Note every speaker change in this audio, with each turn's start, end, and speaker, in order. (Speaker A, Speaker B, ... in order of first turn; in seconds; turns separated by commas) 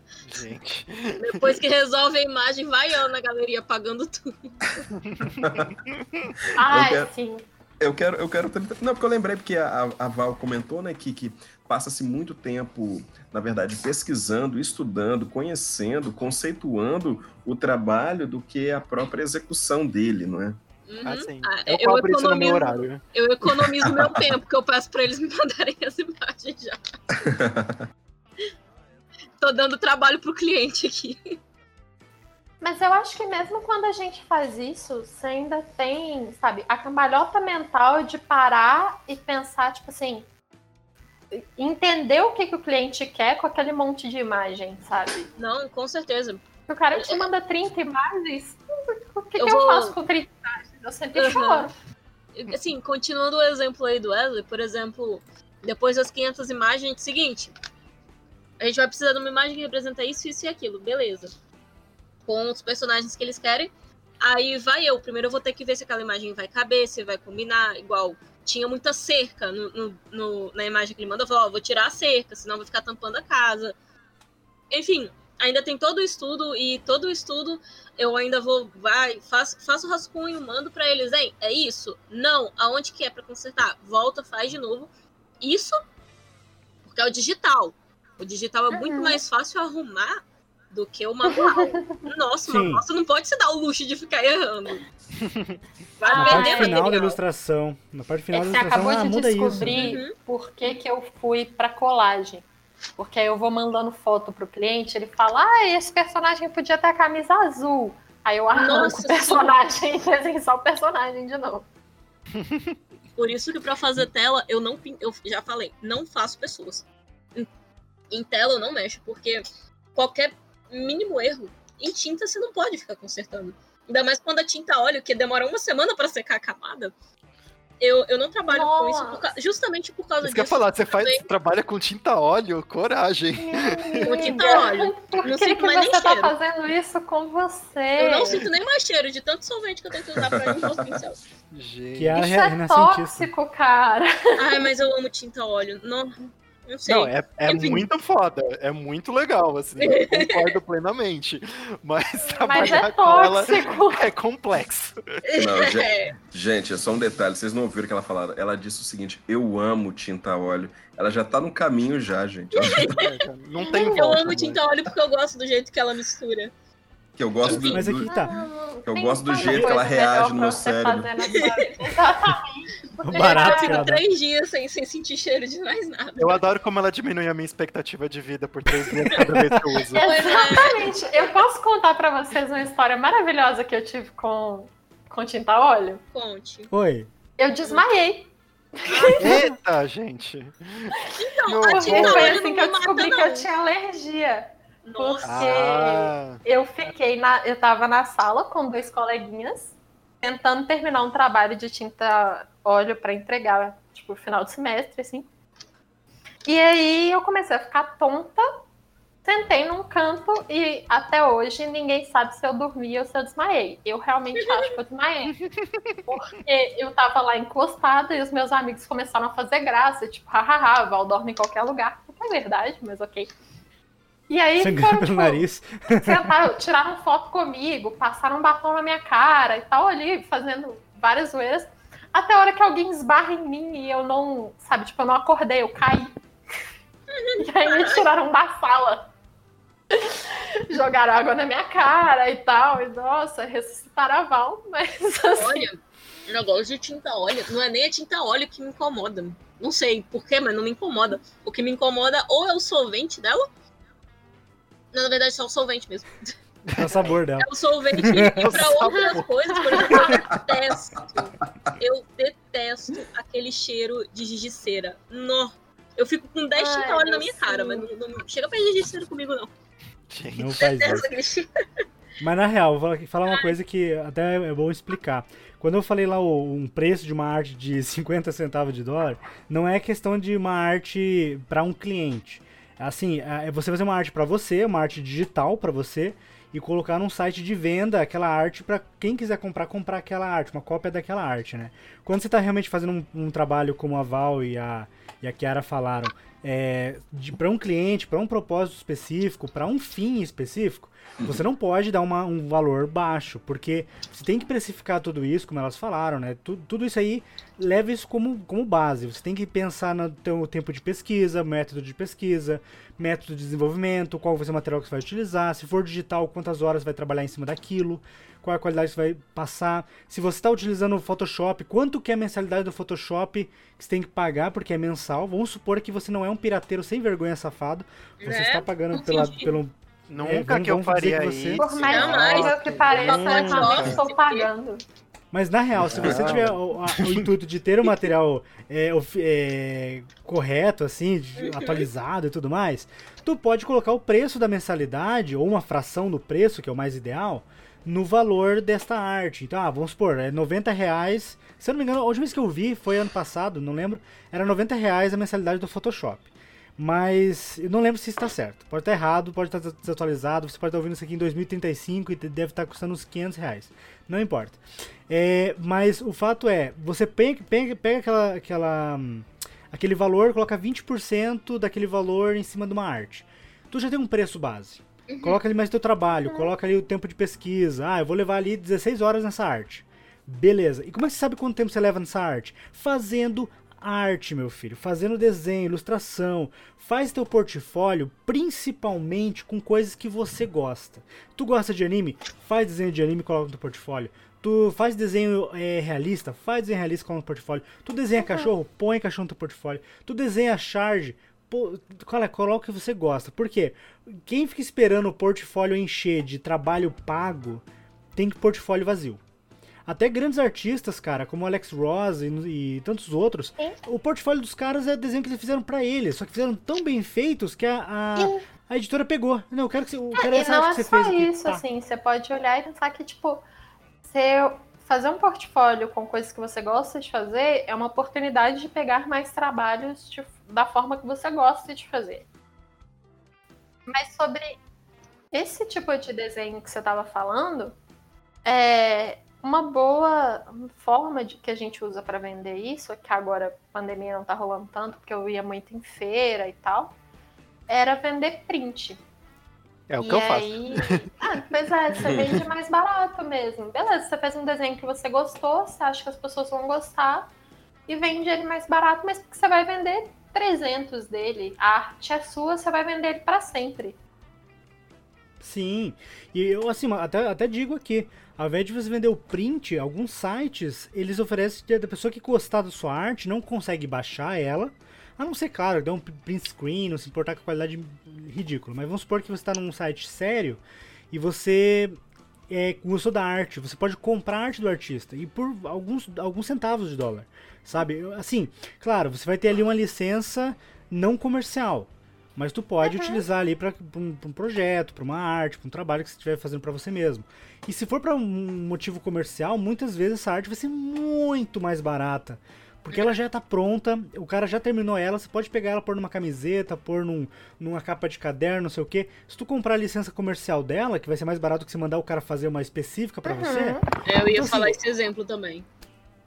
Speaker A: 0.2-1.4, Speaker B: 1.2-4.7, Speaker A: 5.0-6.3, Speaker C: 6.5-7.5, Speaker D: 6.6-7.1, Speaker D: 7.8-20.6, Speaker B: 20.9-26.9, Speaker A: 21.0-23.0, Speaker D: 23.8-24.2, Speaker D: 27.2-27.7, Speaker B: 29.4-31.4, Speaker C: 32.6-40.3, Speaker C: 41.3-45.3, Speaker B: 45.4-46.4, Speaker C: 46.7-51.8, Speaker B: 46.9-47.2, Speaker B: 49.4-50.0, Speaker B: 51.1-51.7, Speaker B: 52.4-57.5, Speaker B: 58.6-61.3, Speaker B: 62.3-73.7, Speaker B: 74.7-84.9, Speaker B: 85.4-85.8, Speaker B: 86.8-94.9, Speaker C: 88.7-89.2, Speaker C: 91.3-92.0, Speaker E: 92.4-92.8, Speaker A: 95.2-95.6, Speaker B: 96.0-97.2, Speaker C: 96.1-97.0, Speaker E: 96.1-99.8, Speaker C: 98.3-102.5, Speaker B: 99.7-100.1, Speaker C: 103.0-111.7, Speaker B: 108.5-109.5, Speaker A: 112.3-112.8, Speaker B: 113.2-117.5, Speaker B: 118.1-126.9, Speaker B: 127.8-131.3, Speaker C: 128.5-129.3, Speaker A: 130.2-134.4, Speaker C: 133.4-138.4, Speaker B: 134.0-136.3, Speaker B: 138.0-141.2, Speaker D: 140.2-140.9, Speaker A: 141.5-142.2, Speaker E: 141.9-143.3, Speaker C: 142.1-144.7, Speaker B: 144.4-147.9, Speaker A: 146.9-155.2, Speaker B: 149.8-150.6, Speaker C: 152.4-154.0, Speaker B: 152.6-152.9, Speaker B: 155.3-156.1, Speaker D: 155.3-163.0, Speaker B: 162.6-163.3, Speaker A: 162.8-164.6, Speaker C: 163.6-164.1, Speaker B: 163.9-166.5, Speaker D: 167.2-168.1, Speaker B: 167.4-167.8, Speaker E: 167.7-168.3, Speaker C: 168.1-173.8, Speaker D: 168.8-171.1, Speaker E: 169.4-169.8, Speaker B: 171.3-171.9, Speaker E: 173.0-174.1, Speaker B: 173.1-176.4, Speaker A: 176.2-180.1, Speaker E: 179.2-179.5, Speaker C: 179.9-186.0, Speaker B: 180.0-180.9, Speaker B: 186.1-186.7, Speaker E: 186.7-187.1, Speaker C: 187.4-189.4, Speaker B: 188.9-189.4, Speaker A: 189.2-192.4, Speaker B: 190.9-193.5, Speaker C: 191.7-205.3, Speaker B: 194.8-195.9, Speaker A: 195.2-196.4, Speaker C: 206.4-208.5, Speaker C: 209.2-215.4, Speaker A: 215.3-216.1, Speaker C: 216.1-223.3, Speaker C: 224.3-225.4, Speaker E: 224.6-226.3, Speaker C: 226.0-236.2, Speaker B: 237.1-238.1, Speaker C: 237.4-239.1, Speaker C: 239.9-245.7, Speaker B: 245.3-253.5, Speaker B: 254.9-256.3, Speaker A: 256.7-257.1, Speaker E: 256.8-258.6, Speaker B: 257.4-269.5, Speaker A: 258.1-259.3, Speaker C: 258.9-260.2, Speaker C: 266.6-267.9, Speaker A: 270.1-270.6, Speaker E: 270.3-271.1, Speaker B: 270.6-271.5, Speaker E: 272.2-331.6, Speaker B: 328.2-329.5, Speaker A: 330.1-334.0, Speaker C: 331.6-334.8, Speaker B: 331.9-334.5, Speaker E: 335.3-407.6, Speaker A: 335.9-337.3, Speaker D: 336.0-336.3, Speaker B: 341.4-341.9, Speaker B: 375.1-375.4, Speaker C: 376.3-376.5, Speaker C: 398.2-398.5, Speaker E: 408.2-409.2, Speaker E: 409.9-421.6, Speaker C: 418.2-418.4, Speaker C: 420.2-423.4, Speaker C: 424.1-432.2, Speaker C: 433.9-434.6, Speaker C: 435.3-437.8, Speaker C: 438.4-447.0, Speaker C: 447.7-449.0, Speaker A: 449.9-451.1, Speaker C: 450.0-457.3, Speaker D: 452.0-452.5, Speaker C: 457.9-464.0, Speaker E: 465.4-482.0, Speaker E: 482.5-514.8, Speaker C: 492.8-493.2, Speaker C: 513.2-513.9, Speaker B: 514.0-515.7